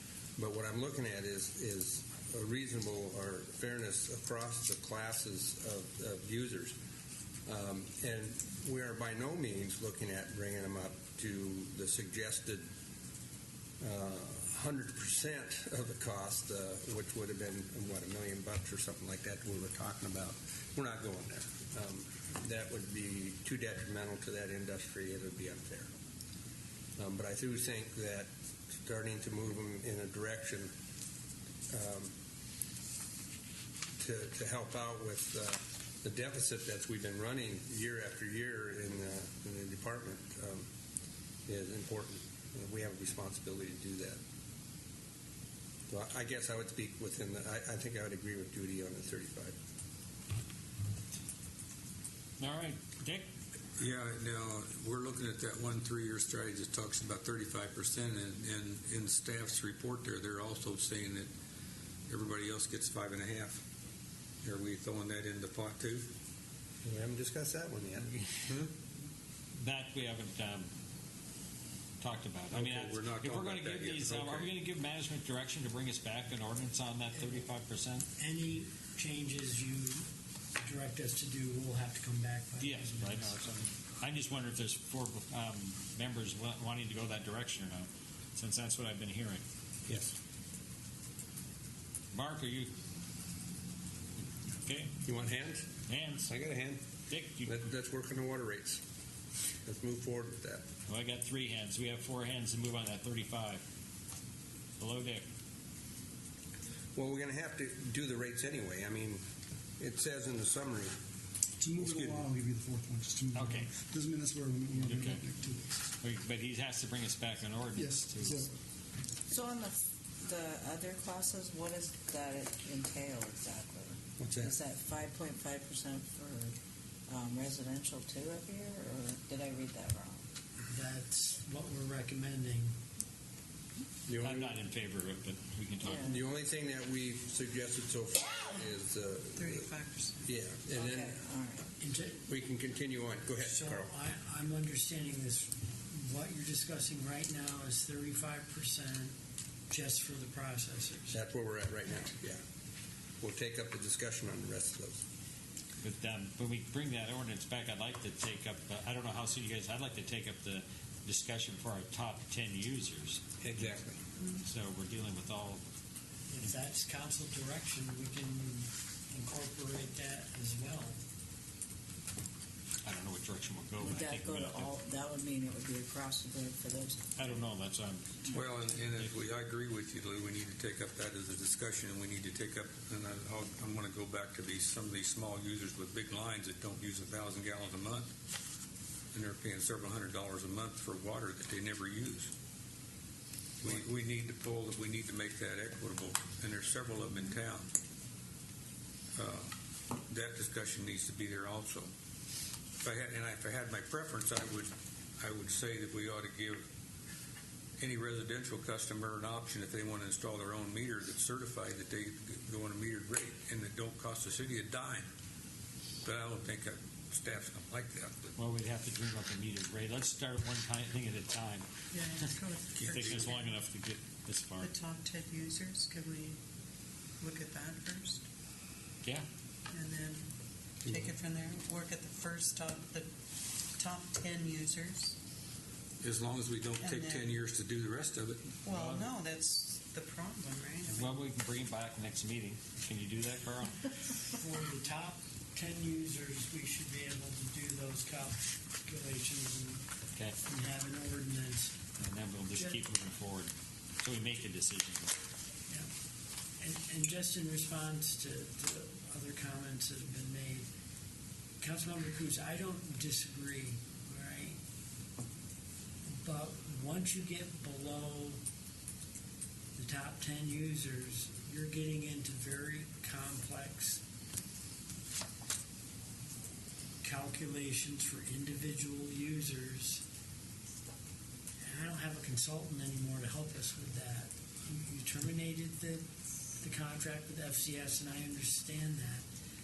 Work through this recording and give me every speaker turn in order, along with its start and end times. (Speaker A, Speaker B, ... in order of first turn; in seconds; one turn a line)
Speaker A: 0.4-6.8
Speaker A: 7.5-12.7
Speaker A: 13.8-25.9
Speaker A: 27.0-30.7
Speaker A: 31.7-32.1
Speaker A: 34.0-40.7
Speaker A: 41.5-44.2
Speaker A: 45.9-49.5
Speaker B: 52.4-53.3
Speaker C: 53.8-61.3
Speaker C: 62.1-63.6
Speaker C: 64.4-66.0
Speaker A: 66.8-68.1
Speaker B: 69.6-70.7
Speaker B: 72.0-78.0
Speaker C: 72.5-74.5
Speaker D: 77.1-77.4
Speaker D: 78.2-80.1
Speaker D: 80.6-83.3
Speaker B: 82.6-89.4
Speaker A: 89.9-90.1
Speaker B: 92.1-92.7
Speaker B: 94.6-94.9
Speaker A: 95.0-95.7
Speaker B: 95.9-96.3
Speaker A: 96.3-96.8
Speaker B: 97.1-97.5
Speaker A: 97.4-98.8
Speaker A: 99.6-100.6
Speaker B: 100.9-103.6
Speaker B: 104.8-105.2
Speaker A: 106.9-109.2
Speaker A: 109.8-110.9
Speaker E: 111.6-115.8
Speaker B: 113.3-113.7
Speaker B: 114.8-115.2
Speaker B: 116.0-118.4
Speaker E: 117.8-118.5
Speaker F: 119.3-126.5
Speaker A: 124.2-124.5
Speaker F: 127.1-130.2
Speaker D: 130.7-132.7
Speaker A: 134.1-134.6
Speaker B: 134.2-136.1
Speaker F: 135.8-136.2
Speaker A: 135.9-139.7
Speaker G: 139.3-140.3
Speaker A: 140.2-141.2
Speaker F: 140.7-141.7
Speaker D: 141.8-142.2
Speaker A: 142.2-143.9
Speaker D: 143.4-149.1
Speaker D: 149.7-151.2
Speaker A: 151.1-152.4
Speaker A: 153.2-155.0
Speaker B: 155.8-163.2
Speaker A: 163.4-164.0
Speaker B: 164.4-165.6
Speaker D: 166.3-171.0
Speaker B: 172.8-174.7
Speaker F: 173.8-177.2
Speaker B: 177.2-178.3
Speaker C: 178.3-188.1
Speaker C: 189.1-192.3
Speaker C: 193.6-197.7
Speaker C: 199.2-199.5
Speaker C: 200.0-201.9
Speaker C: 202.8-206.7
Speaker C: 207.8-215.1
Speaker C: 216.0-218.3
Speaker B: 218.3-221.7
Speaker G: 221.9-223.5
Speaker C: 222.8-223.2
Speaker B: 222.9-224.7
Speaker G: 224.6-226.4
Speaker G: 227.2-228.2
Speaker G: 229.7-230.3
Speaker G: 230.8-233.1
Speaker G: 233.7-235.2
Speaker C: 236.0-239.0
Speaker G: 236.8-237.4
Speaker G: 238.6-241.2
Speaker B: 240.9-243.9
Speaker D: 244.3-249.8
Speaker D: 250.4-251.8
Speaker B: 252.0-255.1
Speaker D: 252.5-252.8
Speaker D: 256.6-260.7
Speaker D: 261.6-264.6
Speaker D: 266.2-268.4
Speaker D: 269.8-274.0
Speaker D: 277.0-280.0
Speaker D: 281.6-286.0
Speaker D: 286.6-289.2